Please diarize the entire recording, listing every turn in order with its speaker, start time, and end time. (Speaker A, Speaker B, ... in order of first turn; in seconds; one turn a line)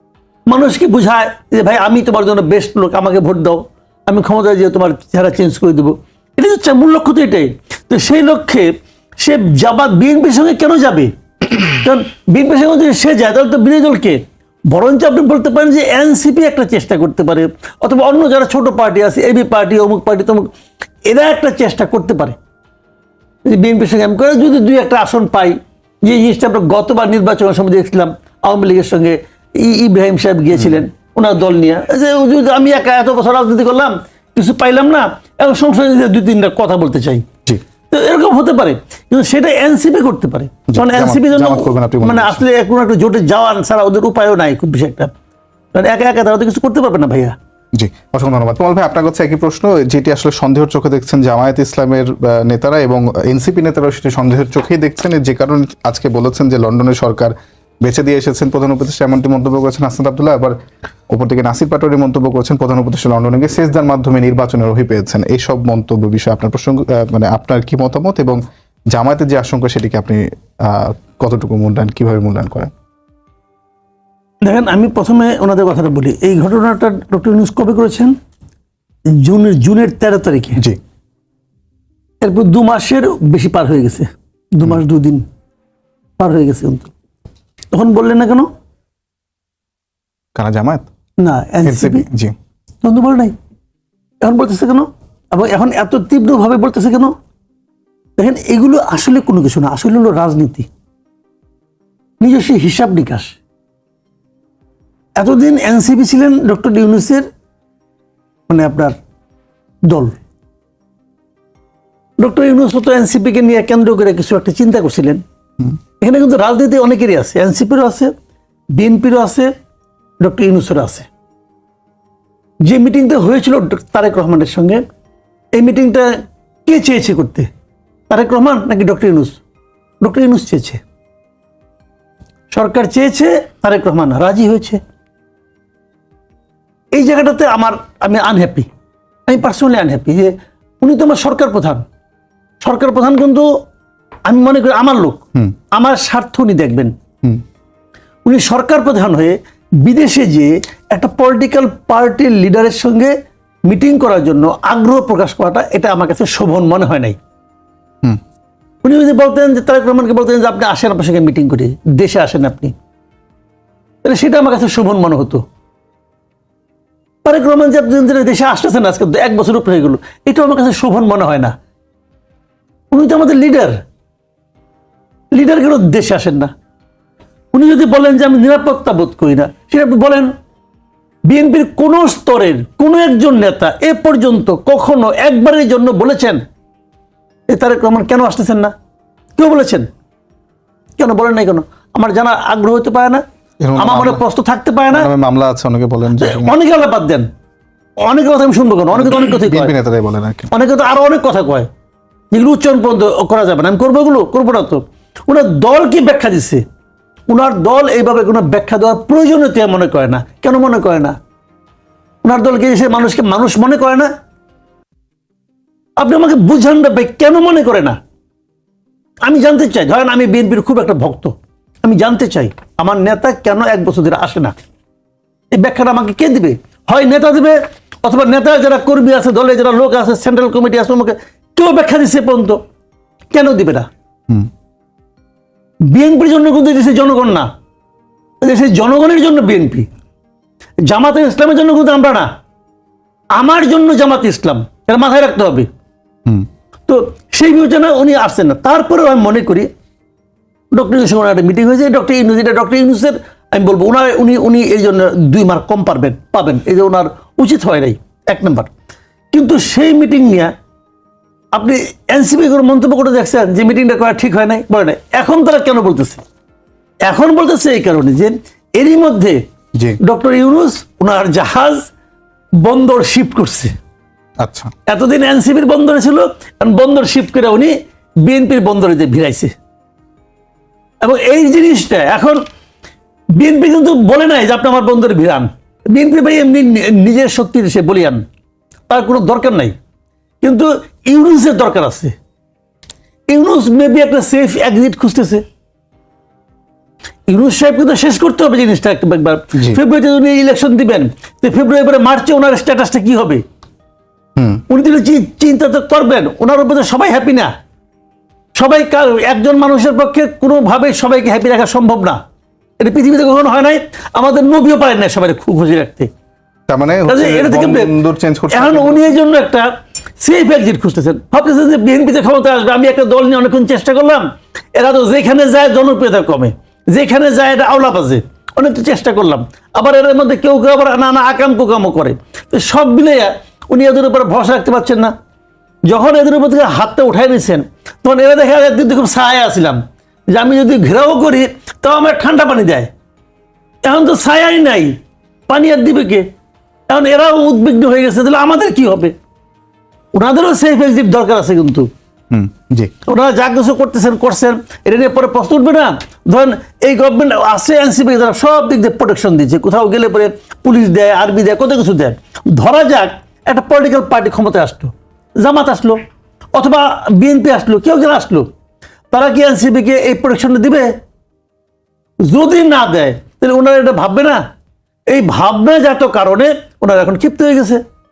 Speaker A: 0.5-20.5
Speaker A: 21.1-22.4
Speaker A: 23.4-37.2
Speaker A: 37.9-45.1
Speaker B: 40.7-42.4
Speaker A: 45.7-47.4
Speaker B: 47.8-60.5
Speaker B: 61.1-68.4
Speaker B: 68.9-72.7
Speaker A: 74.4-78.1
Speaker A: 79.2-80.6
Speaker A: 82.2-85.2
Speaker A: 86.2-86.9
Speaker A: 87.7-88.5
Speaker B: 90.3-90.8
Speaker A: 91.2-92.1
Speaker B: 91.6-92.3
Speaker A: 92.8-93.3
Speaker A: 94.2-97.1
Speaker A: 98.2-100.7
Speaker A: 102.2-103.4
Speaker A: 105.2-107.2
Speaker A: 108.5-109.0
Speaker A: 109.8-110.1
Speaker A: 112.2-115.2
Speaker A: 116.0-118.1
Speaker A: 118.7-119.5
Speaker A: 120.2-121.1
Speaker A: 122.6-124.8
Speaker A: 125.5-126.1
Speaker A: 126.7-127.5
Speaker A: 128.1-129.4
Speaker A: 130.0-130.8
Speaker A: 132.5-134.8
Speaker A: 136.9-138.7
Speaker A: 139.3-141.8
Speaker A: 142.6-143.5
Speaker A: 144.3-145.2
Speaker A: 145.7-146.9
Speaker A: 148.2-153.1
Speaker A: 153.7-157.2
Speaker A: 158.8-162.7
Speaker A: 164.0-165.4
Speaker A: 167.2-171.5
Speaker A: 172.9-173.8
Speaker A: 175.3-176.5
Speaker A: 177.5-180.3
Speaker A: 181.3-186.4
Speaker A: 187.5-188.7
Speaker A: 189.4-189.9
Speaker A: 191.0-193.2
Speaker B: 193.6-194.2
Speaker A: 193.8-195.1
Speaker B: 194.9-196.5
Speaker A: 196.1-197.3
Speaker A: 198.0-199.7
Speaker B: 199.0-200.5
Speaker A: 200.5-201.7
Speaker A: 202.3-206.6
Speaker A: 207.3-211.2
Speaker A: 212.2-214.1
Speaker A: 216.0-218.0
Speaker A: 219.2-224.5
Speaker A: 225.5-232.6
Speaker A: 233.3-233.9
Speaker A: 235.9-237.5
Speaker A: 238.4-239.9
Speaker A: 240.8-242.3
Speaker A: 243.3-245.7
Speaker A: 246.9-249.7
Speaker A: 250.7-258.7
Speaker A: 259.3-260.5
Speaker A: 261.5-266.2
Speaker A: 267.0-269.4
Speaker A: 270.0-271.8
Speaker A: 272.6-273.7
Speaker B: 274.4-274.7
Speaker A: 274.9-279.5
Speaker A: 281.0-282.4
Speaker A: 283.4-288.2
Speaker A: 288.9-289.7
Speaker A: 290.4-292.1
Speaker A: 293.3-295.4
Speaker A: 297.3-303.4
Speaker B: 299.5-299.8
Speaker B: 304.4-304.6
Speaker A: 304.7-307.5
Speaker A: 308.6-312.2
Speaker A: 312.8-316.1
Speaker B: 316.7-319.1
Speaker A: 317.1-317.9
Speaker A: 318.5-319.7
Speaker A: 320.2-324.2
Speaker A: 324.8-335.1
Speaker A: 335.9-342.9
Speaker A: 343.8-344.9
Speaker A: 345.5-346.2
Speaker A: 346.9-349.1
Speaker A: 350.1-351.9
Speaker B: 352.3-352.9
Speaker A: 353.0-366.0
Speaker A: 366.5-368.5
Speaker A: 369.1-370.9
Speaker A: 372.2-374.4
Speaker A: 375.1-377.8